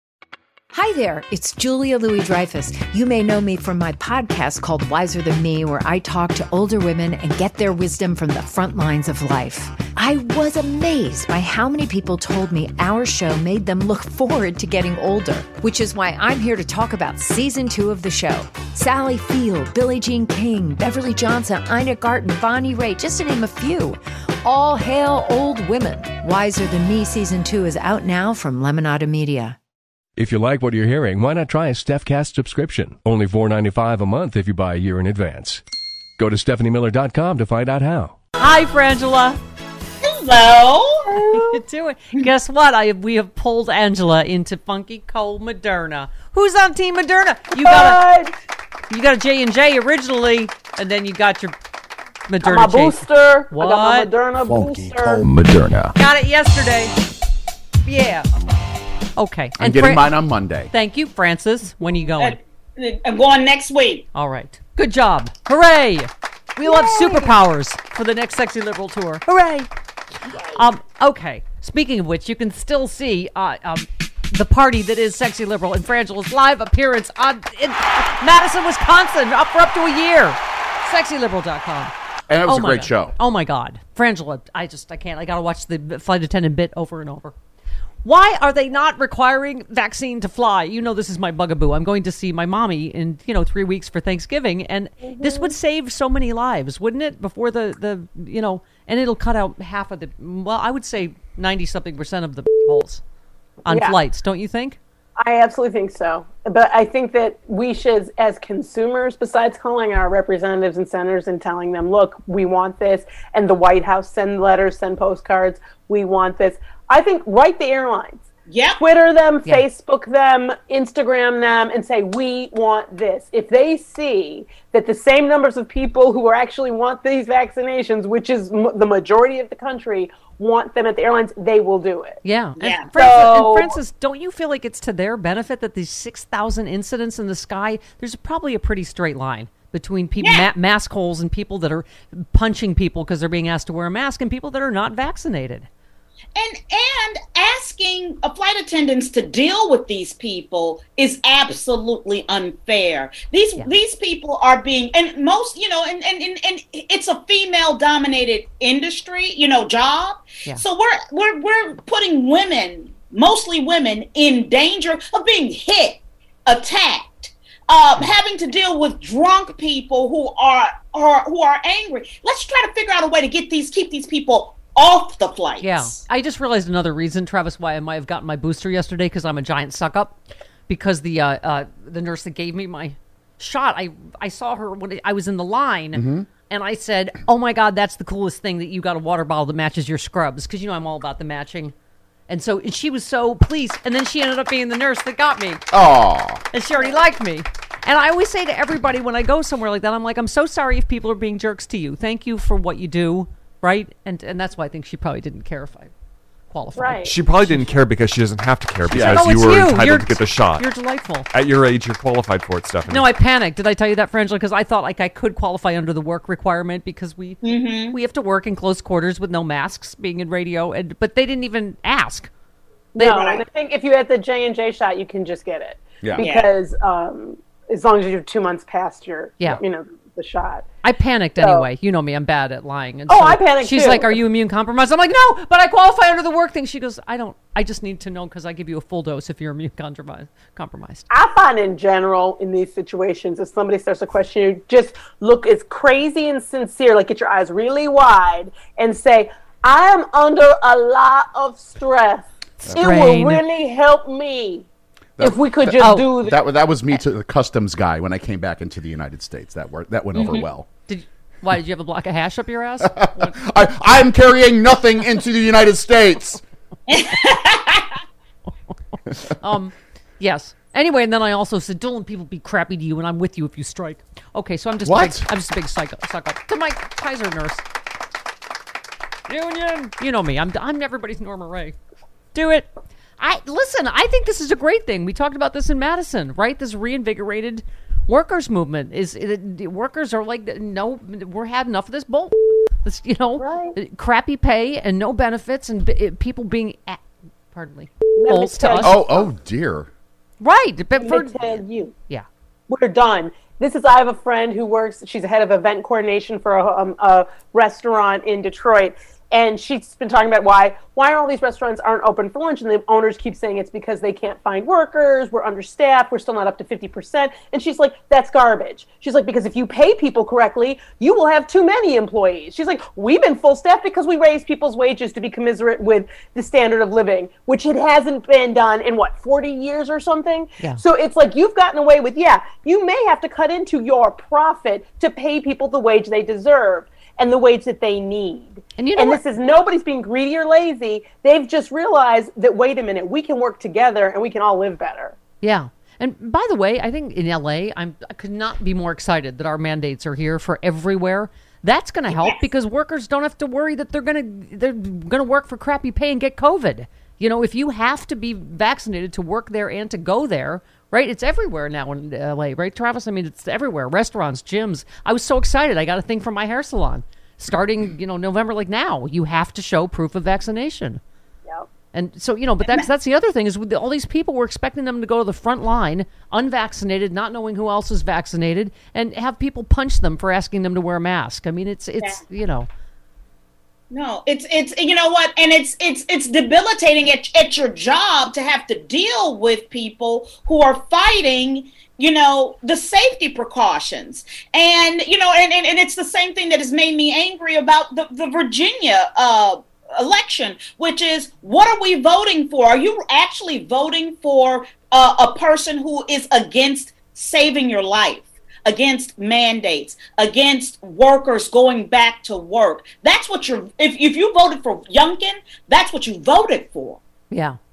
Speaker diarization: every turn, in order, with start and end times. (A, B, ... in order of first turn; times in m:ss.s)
0:00.7-0:29.6 A
0:30.2-0:35.6 B
0:36.2-0:38.2 B
0:38.4-0:39.4 C
0:40.0-0:41.4 D
0:41.2-0:48.0 C
0:47.6-0:48.3 E
0:48.9-0:51.6 C
0:52.3-0:54.1 C
0:52.4-0:55.3 E
0:55.2-0:55.9 F
0:56.0-0:56.9 C
0:57.8-0:58.3 C
0:59.2-1:00.2 C
0:59.6-1:00.7 F
1:00.7-1:02.4 C
1:02.2-1:04.1 D
1:04.1-1:09.7 C
1:06.7-1:07.2 E
1:10.3-1:10.6 D
1:10.5-1:21.9 C
1:22.3-1:23.2 F
1:22.4-1:27.3 C
1:28.0-1:43.0 C
1:35.0-1:35.6 E
1:43.6-1:44.8 C
1:43.7-1:44.0 E
1:45.2-1:58.2 E
1:58.5-1:58.8 D
1:58.8-2:12.2 E
2:12.2-2:25.7 C
2:12.6-2:12.9 D
2:12.9-2:13.7 E
2:20.2-2:20.5 D
2:26.4-2:56.0 D
2:55.6-3:11.8 C
3:05.9-3:06.3 F
3:12.3-3:15.6 C
3:15.7-3:16.4 F
3:16.5-3:25.9 C
3:26.5-3:27.7 C
3:26.8-3:27.2 E
3:27.0-3:33.1 G
3:28.9-3:29.3 F
3:29.0-3:31.3 C
3:32.9-3:42.3 C
3:37.4-3:38.0 D
3:43.0-3:50.7 E
3:43.0-3:43.4 D
3:46.2-3:46.5 D
3:50.8-4:01.1 C
3:51.4-3:51.7 E
3:53.1-3:54.2 E
4:01.1-4:14.7 E
4:12.6-4:13.4 C
4:15.2-4:20.7 F
4:15.2-4:16.4 E
4:15.8-4:16.1 C
4:20.2-4:20.5 D
4:20.9-4:23.4 C
4:22.8-4:26.4 F
4:26.9-4:27.9 D
4:29.3-4:37.6 C
4:34.8-4:35.3 F
4:39.3-4:41.8 C
4:42.3-4:59.0 C
4:53.4-4:53.8 E
4:58.2-4:59.3 E
4:58.8-4:59.9 F
5:00.4-5:02.3 C
5:01.0-5:01.9 E
5:02.7-5:45.2 E
5:38.8-5:39.2 C
5:45.4-6:11.0 C
5:52.1-5:52.4 D
6:11.9-6:22.7 C
6:23.9-6:57.0 D
6:57.3-6:57.6 C